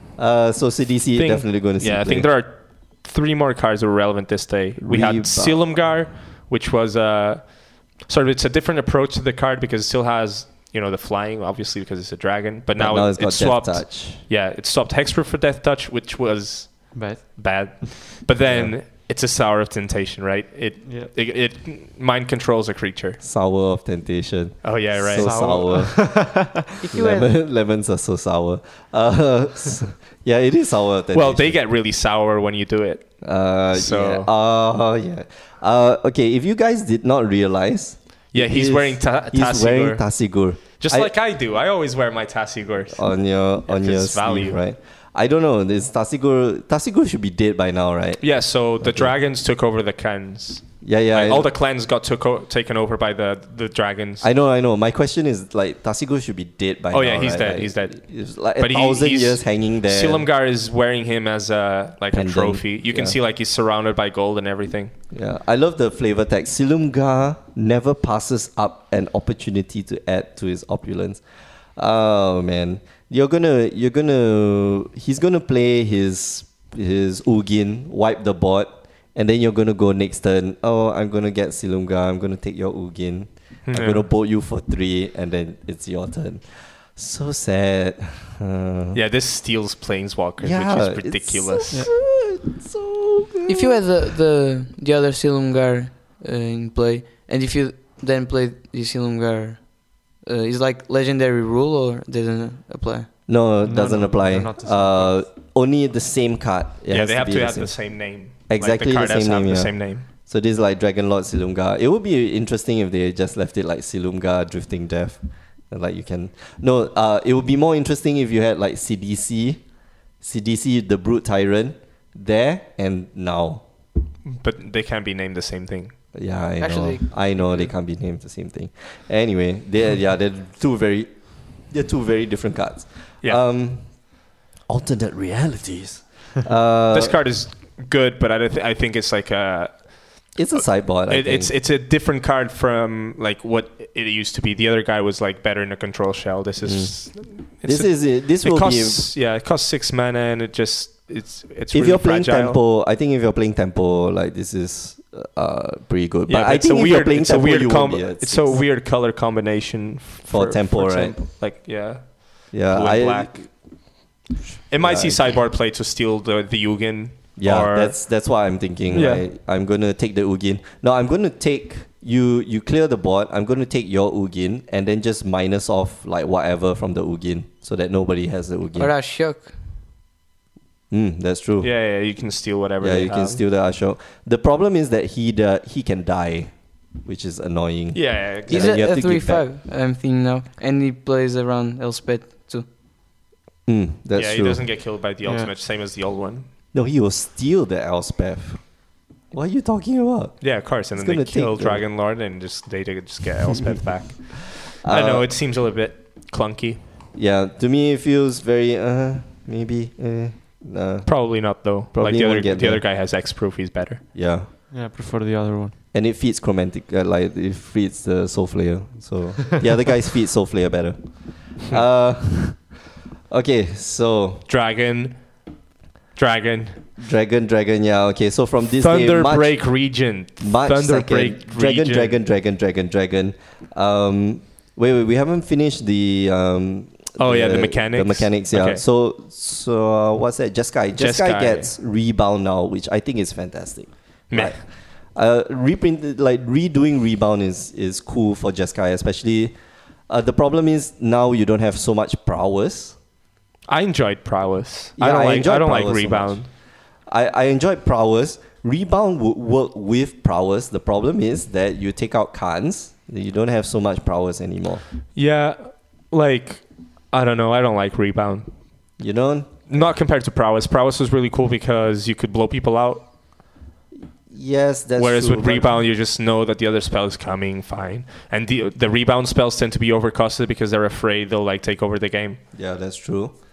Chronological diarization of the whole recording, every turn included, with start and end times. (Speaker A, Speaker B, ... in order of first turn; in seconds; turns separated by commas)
Speaker A: 0.2-2.3, Speaker B: 1.1-23.2, Speaker A: 4.8-5.7, Speaker A: 12.8-14.2, Speaker C: 16.9-17.9, Speaker A: 18.4-18.8, Speaker C: 20.8-21.1, Speaker A: 23.2-31.6, Speaker B: 24.6-25.7, Speaker C: 25.1-26.5, Speaker D: 26.8-27.3, Speaker B: 31.1-34.3, Speaker A: 33.2-41.1, Speaker B: 38.3-43.0, Speaker A: 42.9-49.1, Speaker B: 43.6-44.6, Speaker B: 48.2-54.3, Speaker A: 50.8-51.5, Speaker A: 54.2-60.3, Speaker B: 56.9-64.9, Speaker A: 62.1-63.1, Speaker A: 65.1-71.2, Speaker A: 71.8-89.0, Speaker B: 83.7-84.0, Speaker B: 88.9-91.9, Speaker A: 90.4-93.8, Speaker D: 93.5-103.1, Speaker A: 103.3-107.8, Speaker C: 103.6-105.2, Speaker B: 106.9-110.0, Speaker A: 108.3-119.6, Speaker A: 120.2-123.6, Speaker B: 124.2-126.0, Speaker A: 126.1-137.2, Speaker D: 126.6-127.6, Speaker B: 136.9-152.6, Speaker A: 140.3-141.5, Speaker A: 146.6-149.1, Speaker A: 151.7-158.6, Speaker B: 156.3-163.5, Speaker A: 160.3-161.2, Speaker A: 162.5-163.5, Speaker A: 164.5-165.4, Speaker B: 164.7-168.0, Speaker A: 167.4-178.9, Speaker B: 168.9-169.2, Speaker D: 178.8-179.5, Speaker A: 180.9-181.7, Speaker B: 181.6-183.4, Speaker A: 182.8-189.4, Speaker B: 187.9-188.8, Speaker D: 188.5-192.7, Speaker A: 193.7-194.7, Speaker B: 194.1-196.5, Speaker C: 195.2-195.5, Speaker A: 196.7-198.8, Speaker A: 199.3-201.8, Speaker B: 200.4-206.8, Speaker A: 204.8-205.3, Speaker A: 207.1-212.8, Speaker B: 211.1-214.0, Speaker A: 214.1-214.5, Speaker C: 214.7-215.7, Speaker A: 215.9-222.8, Speaker A: 223.3-224.4, Speaker B: 224.5-225.4, Speaker B: 226.2-226.8, Speaker A: 227.0-229.7, Speaker B: 228.8-232.2, Speaker A: 230.4-244.6, Speaker B: 237.2-238.8, Speaker B: 241.0-241.7, Speaker B: 244.3-244.6, Speaker A: 245.1-249.5, Speaker A: 250.1-252.9, Speaker B: 253.7-256.5, Speaker A: 255.0-256.5, Speaker A: 257.1-264.8, Speaker B: 265.1-268.5, Speaker A: 269.0-269.8, Speaker B: 269.7-273.1, Speaker A: 274.3-275.8, Speaker B: 275.0-282.4, Speaker A: 282.5-283.3